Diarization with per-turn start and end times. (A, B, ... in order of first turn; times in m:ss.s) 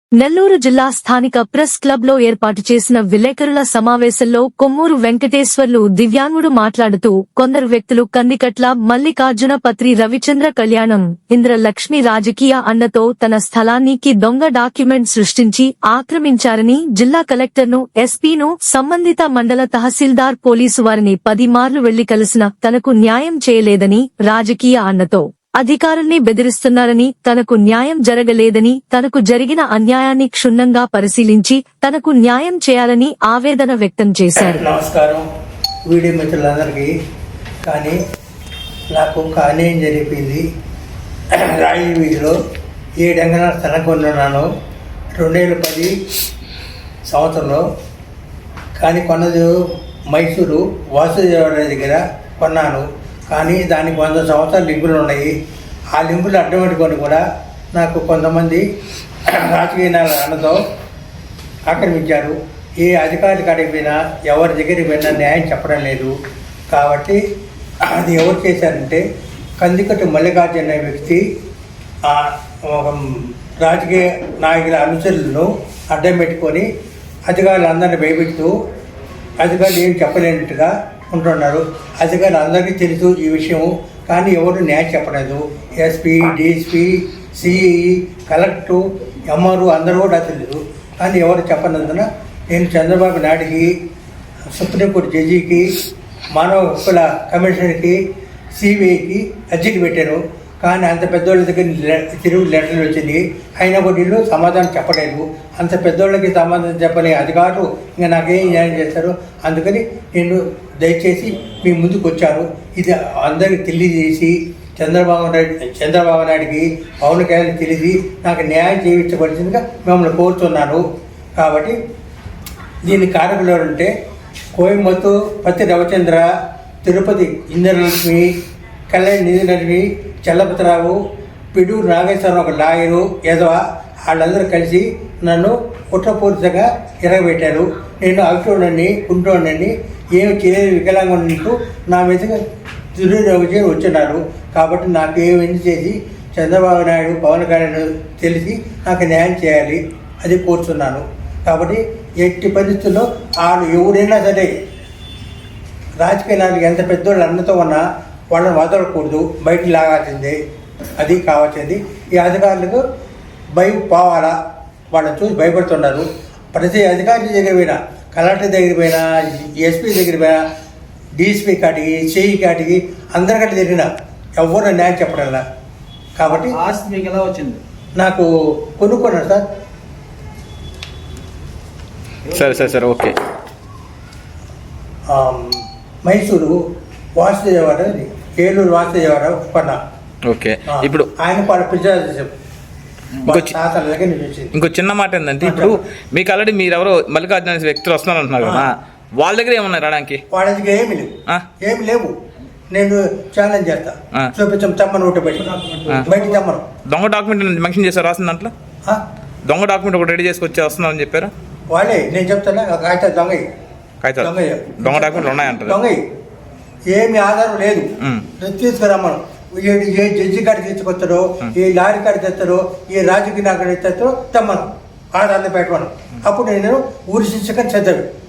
0:00.2-0:34.6 A
0:34.5-0:35.2 B
0:35.9-0:36.9 B
0:37.6-0:38.0 B
0:38.9-0:40.4 B
0:41.3-0:42.4 B
0:43.0-0:44.4 B
0:45.1-0:45.9 B
0:47.0-0:47.6 B
0:48.8-0:49.5 B
0:50.1-0:55.3 B
0:55.9-0:58.6 B
0:59.2-1:00.6 B
1:01.7-1:06.1 B
1:06.7-1:07.2 B
1:07.8-1:09.0 B
1:09.6-1:11.2 B
1:12.0-1:16.7 B
1:17.3-1:18.5 B
1:19.4-1:33.8 B
1:34.5-1:35.8 B
1:36.3-1:38.0 B
1:38.5-2:00.8 B
2:01.4-2:01.7 B
2:02.8-2:03.9 B
2:04.5-2:06.2 B
2:06.8-2:08.3 B
2:08.9-2:11.0 B
2:11.5-2:22.4 B
2:22.9-2:34.5 B
2:36.0-2:40.4 B
2:41.0-2:42.8 B
2:43.5-2:44.3 B
2:44.9-2:50.4 B
2:51.2-2:55.4 B
2:56.2-2:56.5 B
2:56.3-2:57.6 C
2:58.0-2:59.4 B
3:02.3-3:02.8 C
3:02.3-3:03.2 D
3:05.1-3:06.6 B
3:07.2-3:09.8 B
3:10.2-3:11.1 D
3:10.7-3:12.3 B
3:13.2-3:14.5 B
3:13.3-3:13.5 D
3:14.5-3:20.2 D
3:15.4-3:15.7 B
3:18.4-3:18.7 B
3:20.3-3:22.1 B
3:22.7-3:25.5 B
3:25.4-3:26.4 C
3:26.0-3:26.6 B
3:26.9-3:28.5 D
3:29.4-3:31.3 D
3:31.7-3:33.4 B
3:34.0-3:35.8 D
3:34.2-3:36.0 B
3:36.9-3:48.1 B